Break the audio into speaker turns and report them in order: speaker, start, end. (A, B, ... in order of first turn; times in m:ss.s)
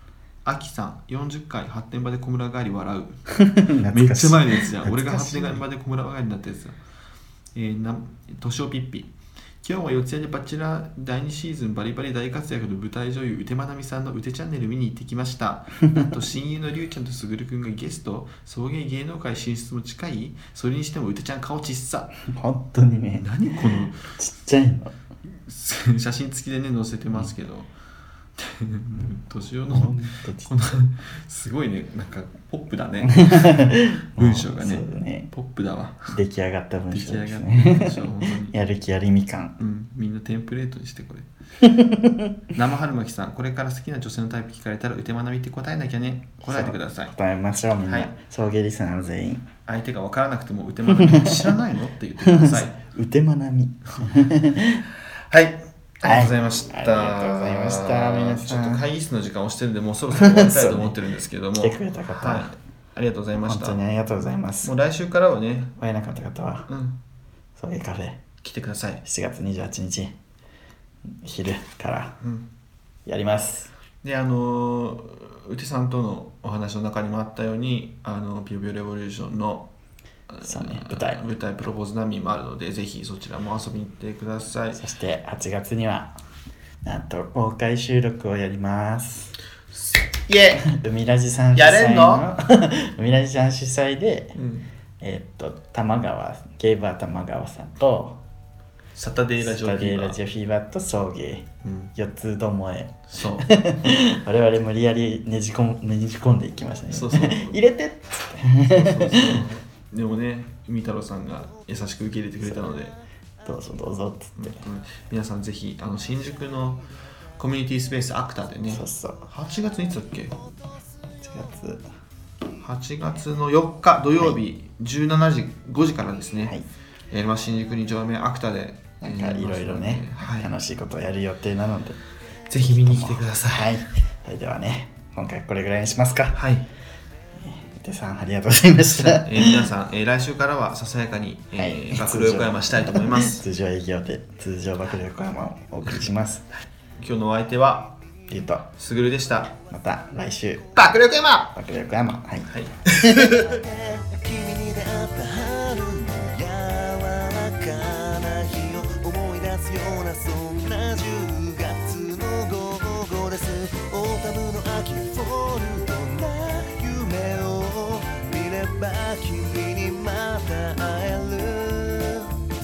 0:00.4-0:03.2 A
0:03.3-0:05.6 B
0:03.9-0:06.8 A
0:07.5-0:09.1 A
0:09.6-0:22.1 A
0:22.3-0:24.9 B
0:23.2-0:24.0 A
0:25.5-0:27.7 A
0:28.4-0:36.2 A
0:29.7-0:30.5 B
0:33.1-0:35.3 B
0:36.1-0:39.6 B
0:36.9-0:38.6 A
0:39.6-0:41.3 A
0:41.6-0:42.4 B
0:42.5-0:47.2 A
0:46.4-0:49.5 B
0:47.9-0:48.1 A
0:49.7-0:52.8 A
0:50.9-0:51.6 B
0:52.2-0:54.8 B
0:55.3-1:03.8 A
0:56.0-0:58.8 B
1:00.1-1:01.0 B
1:01.6-1:02.6 B
1:03.4-1:04.7 B
1:04.6-1:05.7 A
1:05.8-1:06.7 B
1:06.7-1:07.0 A
1:07.6-1:08.2 B
1:08.4-1:09.0 A
1:09.0-1:10.2 B
1:11.2-1:12.2 B
1:12.2-1:12.5 A
1:13.1-1:13.7 B
1:14.0-1:19.7 A
1:20.3-1:24.8 A
1:20.5-1:21.3 B
1:24.8-1:26.1 B
1:26.8-1:29.4 B
1:29.8-1:30.7 A
1:30.6-1:34.3 B
1:31.6-1:32.3 A
1:34.4-1:34.7 A
1:35.0-1:38.2 B
1:39.0-1:40.2 A
1:39.4-1:49.5 B
1:41.6-1:41.9 A
1:43.1-1:43.6 A
1:46.9-1:47.6 A
1:48.7-1:53.0 A
1:52.4-1:52.7 B
1:53.4-1:54.6 B
1:54.4-1:56.8 A
1:57.4-2:00.4 A
1:58.7-1:59.3 B
2:01.2-2:01.9 B
2:02.6-2:06.6 A
2:07.1-2:10.5 A
2:09.0-2:12.0 B
2:12.5-2:13.7 A
2:12.6-2:16.4 B
2:16.3-2:16.7 A
2:17.4-2:19.7 B
2:18.9-2:23.4 A
2:21.6-2:26.5 B
2:27.0-2:27.9 A
2:28.3-2:28.7 B
2:28.7-2:29.6 A
2:29.5-2:30.7 B
2:30.8-2:31.5 A
2:31.5-2:33.4 B
2:32.5-2:33.6 A
2:33.4-2:52.4 C